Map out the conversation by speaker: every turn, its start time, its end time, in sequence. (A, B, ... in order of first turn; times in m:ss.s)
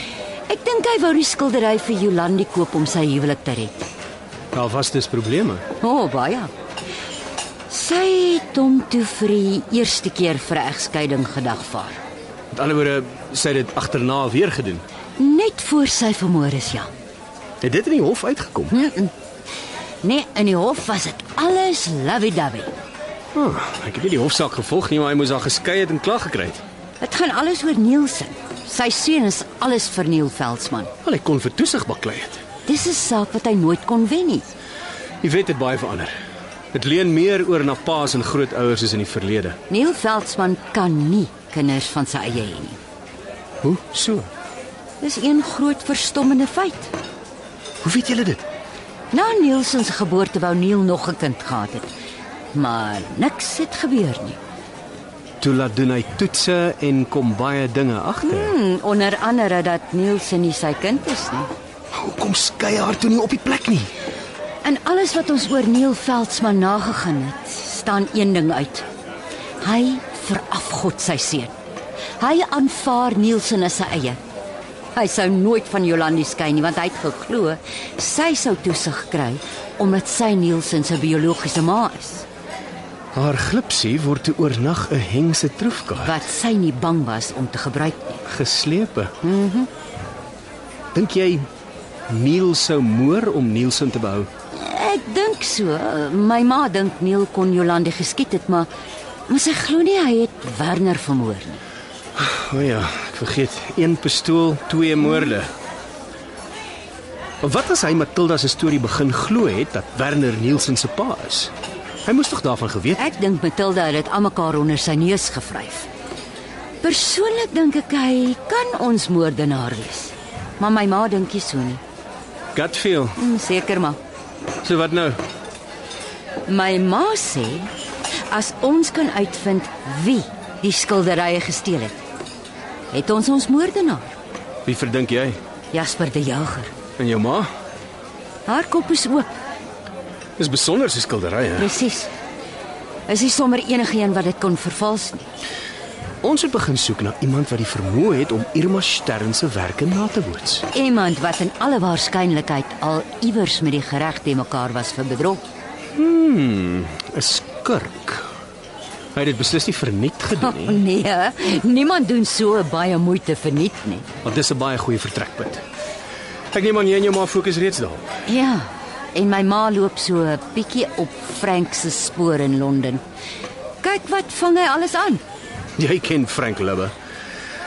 0:00.5-0:03.8 A
0:04.5-0:05.6 B
0:05.8-0:06.5 A
0:07.7-0:12.0 A
0:12.5-0:14.8 B
0:15.2-0:16.9 A
0:17.6-0:18.7 B
0:18.7-0:19.1 A
0:20.0-0:22.7 A
0:23.3-0:26.6 B
0:27.0-0:30.9 A
0:31.0-0:32.4 B
0:32.6-0:34.4 A
0:35.2-0:36.1 B
0:36.7-0:39.6 B
0:39.7-0:42.8 A
0:43.6-0:44.3 B
0:45.0-0:46.9 A
0:47.8-0:48.4 B
0:49.1-0:51.9 A
0:52.5-0:54.4 A
0:55.4-0:58.5 B
0:58.2-1:01.5 A
1:01.9-1:03.9 B
1:04.6-1:08.8 A
1:09.6-1:11.5 A
1:12.2-1:14.2 A
1:14.9-1:22.2 A
1:23.1-1:26.1 B
1:26.0-1:28.2 A
1:28.2-1:29.1 B
1:29.2-1:29.7 A
1:30.9-1:31.5 B
1:32.1-1:34.3 B
1:34.5-1:38.7 A
1:39.3-1:41.6 A
1:42.2-1:45.5 B
1:47.4-1:51.5 B
1:52.0-1:53.0 B
1:53.0-1:55.9 A
1:56.8-2:01.8 A
2:02.5-2:03.2 B
2:03.2-2:04.0 A
2:04.6-2:05.2 B
2:06.4-2:07.7 A
2:08.3-2:12.0 A
2:12.9-2:14.2 A
2:14.6-2:15.4 B
2:15.7-2:16.7 A
2:17.0-2:17.5 B
2:18.4-2:19.4 A
2:20.4-2:21.7 B
2:21.6-2:22.1 A
2:23.1-2:25.3 A
2:26.2-2:30.6 B
2:30.7-2:35.4 A
2:35.9-2:38.2 B
2:39.1-2:40.8 B
2:40.4-2:44.1 A
2:44.2-2:45.6 B
2:46.5-2:48.1 B
2:48.3-2:53.0 A
2:53.8-2:55.2 A
2:55.8-2:56.9 B